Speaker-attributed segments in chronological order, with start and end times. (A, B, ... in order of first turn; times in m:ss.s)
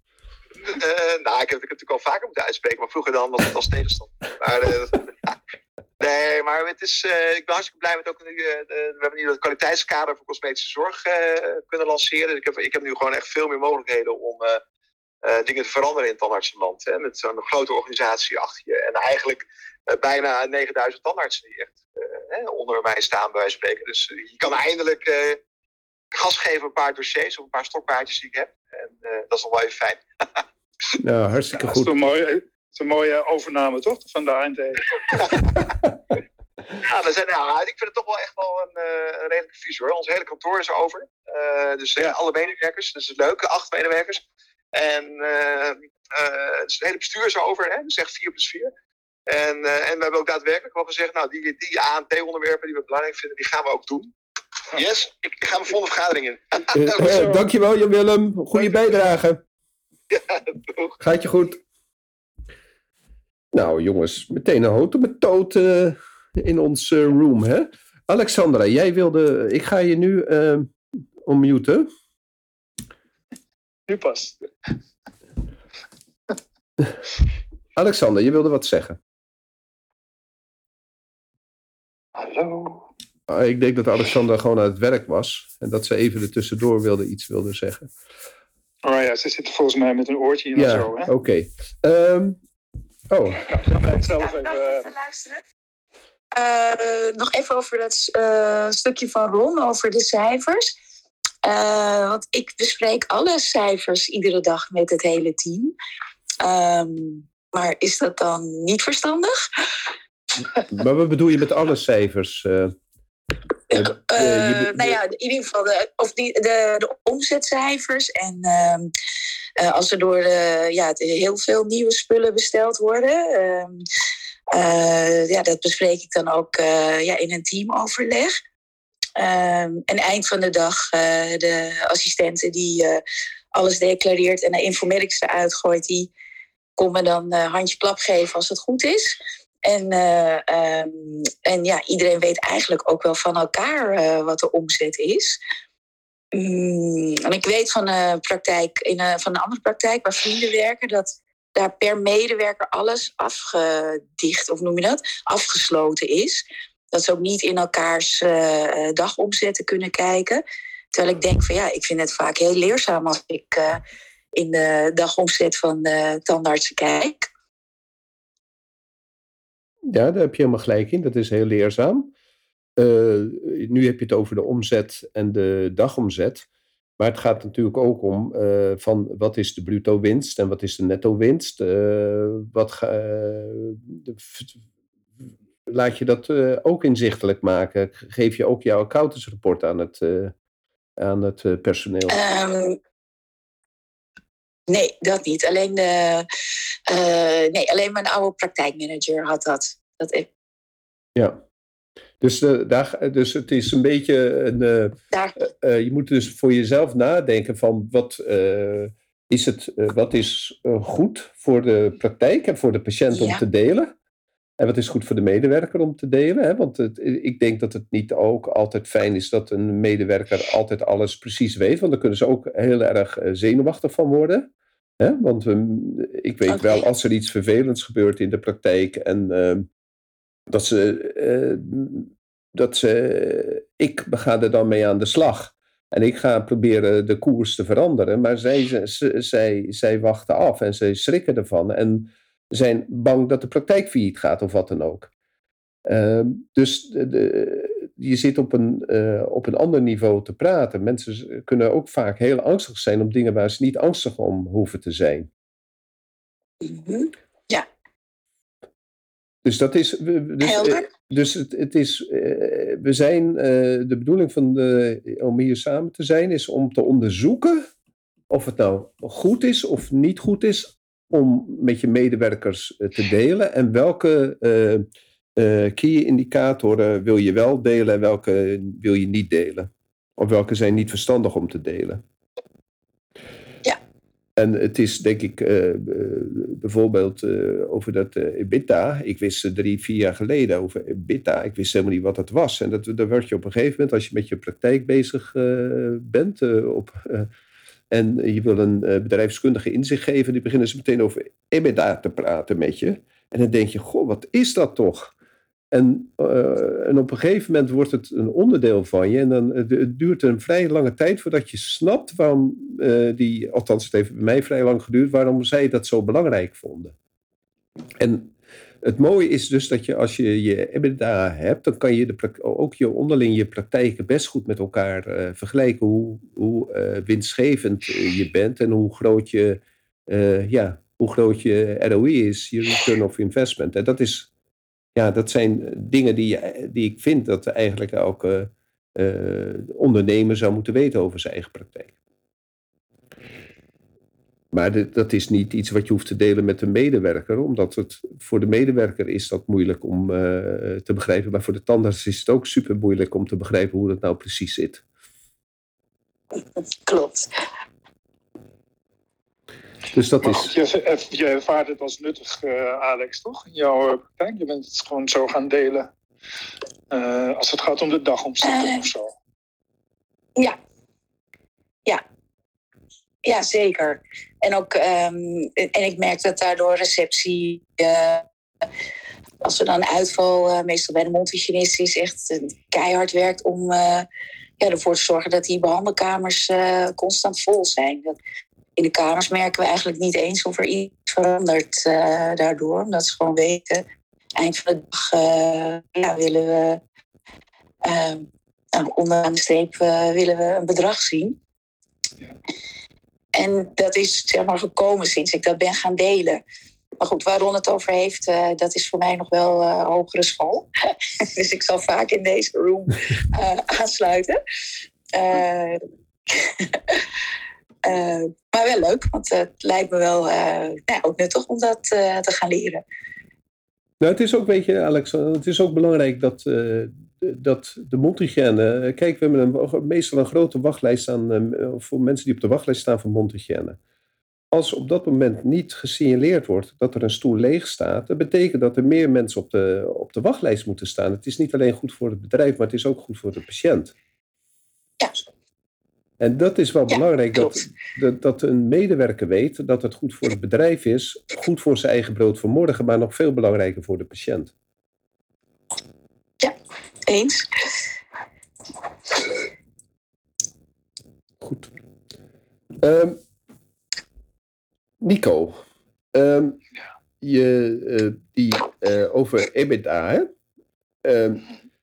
0:00.6-0:05.4 A
0:06.0-0:14.6 A
0:15.2-0:25.4 A
0:26.1-0:30.4 A
0:31.0-0:31.9 B
0:31.6-0:35.4 C
0:36.8-0:44.2 A
0:44.7-0:48.7 A
0:49.3-0:54.1 A
0:54.7-0:57.3 A
0:56.7-0:59.4 B
0:57.0-0:57.4 C
1:00.1-1:00.9 A
1:01.0-1:01.6 B
1:03.5-1:10.7 B
1:11.2-1:11.9 B
1:13.9-1:14.4 C
1:17.8-1:19.0 B
1:22.1-1:22.9 C
1:23.3-1:27.9 B
1:28.8-1:31.1 C
1:30.5-1:32.4 B
1:33.1-1:33.4 B
1:33.5-1:34.9 C
1:34.2-1:35.4 D
1:36.3-1:40.8 D
1:41.4-1:45.7 D
1:46.4-1:49.3 D
1:50.6-1:52.7 B
1:53.7-1:55.0 B
1:53.7-1:58.9 D
1:59.6-2:03.8 D
2:04.5-2:08.3 D
2:09.2-2:13.0 D
2:13.5-2:16.1 D
2:16.8-2:25.4 D
2:26.3-2:43.8 D
2:44.3-2:47.3 D
2:49.9-2:52.1 B
2:52.8-2:56.5 B
2:57.0-3:04.5 B
3:05.7-3:10.3 B
3:11.0-3:12.2 B
3:12.1-3:12.8 D
3:14.7-3:16.3 D
3:16.9-3:20.3 D
3:22.2-3:33.9 B
3:33.1-3:33.4 D
3:34.6-3:44.5 B
3:45.0-3:49.7 B
3:46.5-3:46.8 D
3:50.5-4:05.1 B
4:05.8-4:15.3 B
4:16.6-4:17.6 D
4:19.4-4:27.7 B
4:20.4-4:20.8 D
4:28.3-4:42.0 B
4:44.4-4:57.3 B
4:57.9-5:05.1 B
5:05.7-5:16.9 B
5:18.0-5:34.3 B
5:34.9-5:41.9 B
5:44.5-5:54.8 B
5:56.8-5:57.3 D
5:59.9-6:00.5 B
6:00.2-6:05.9 C
6:06.9-6:09.1 C
6:13.2-6:18.2 D
6:19.4-6:24.0 D
6:24.6-6:28.2 D
6:28.8-6:33.8 D
6:34.4-6:36.8 D
6:37.8-6:41.4 D
6:43.3-6:46.4 D
6:47.0-6:50.7 D
6:51.4-6:54.4 D
6:55.1-6:56.5 D
6:57.8-7:02.8 D
7:04.0-7:13.8 B
7:14.5-7:23.9 B
7:26.2-7:34.5 B
7:26.9-7:27.5 D
7:37.1-7:37.5 D
7:41.4-7:41.7 B
7:42.8-7:43.2 B
7:45.0-7:45.6 B
7:46.1-7:46.6 B
7:47.2-7:50.3 B
7:51.0-7:51.5 B